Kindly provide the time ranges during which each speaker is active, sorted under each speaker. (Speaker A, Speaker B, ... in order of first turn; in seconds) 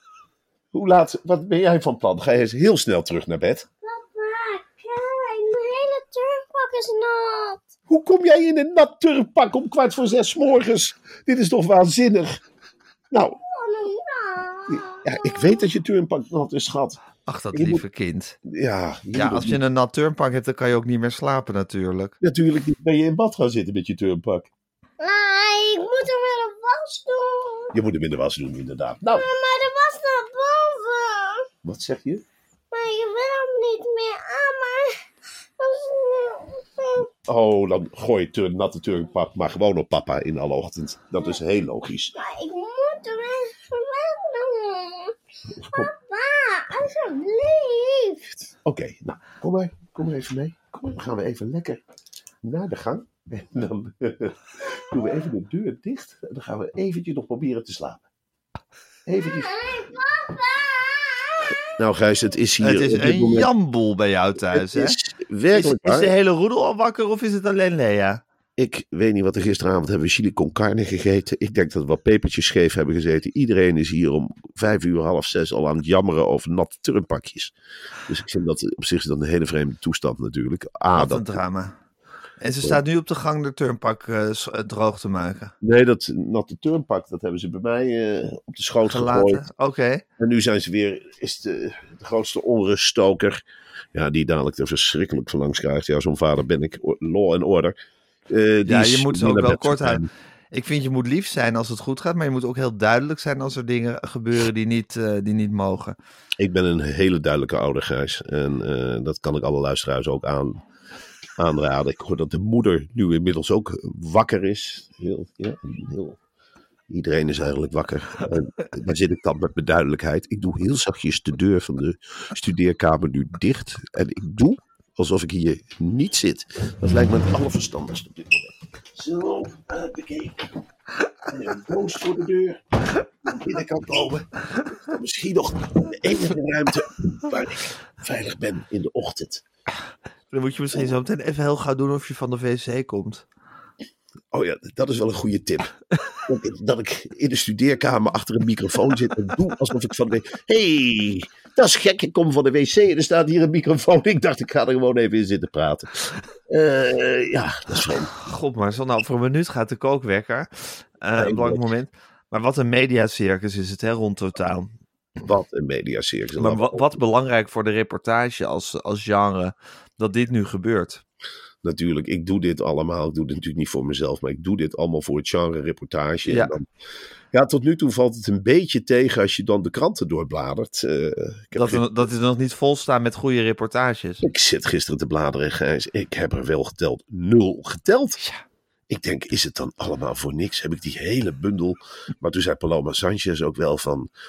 Speaker A: 0.7-3.7, 7.9-12.4, 13.1-13.4, 14.7-17.0, 17.5-17.8, 18.4-19.6, 22.2-24.5, 27.7-29.3, 31.6-32.2, 37.3-42.1, 45.5-45.9, 48.5-51.8, 52.4-58.0, 59.1-59.5, 61.8-63.5, 64.5-66.1, 68.6-77.5, 78.1-81.4, 85.6-89.5, 90.2-93.4, 93.9-97.8, 98.3-100.1, 106.4-110.6, 111.4-116.2, 116.9-130.6, 131.3-132.6, 133.2-139.4, 144.3-155.9, 156.5-158.1, 161.2-161.7, 165.2-167.0, 171.6-176.6, 177.3-181.8, 184.2-188.2, 188.9-194.1
Speaker B: 3.8-7.7, 13.4-15.6, 25.0-27.7, 29.2-31.5, 32.7-34.9, 35.6-37.1, 42.2-45.1, 45.7-48.3, 59.4-61.6
Speaker C: 17.3-18.4, 19.1-22.2, 62.6-65.0, 65.5-68.2, 80.9-81.8, 82.4-85.5, 88.9-90.0, 98.7-106.0, 140.3-143.2, 158.2-164.7, 166.4-171.0, 176.3-176.6, 181.6-184.2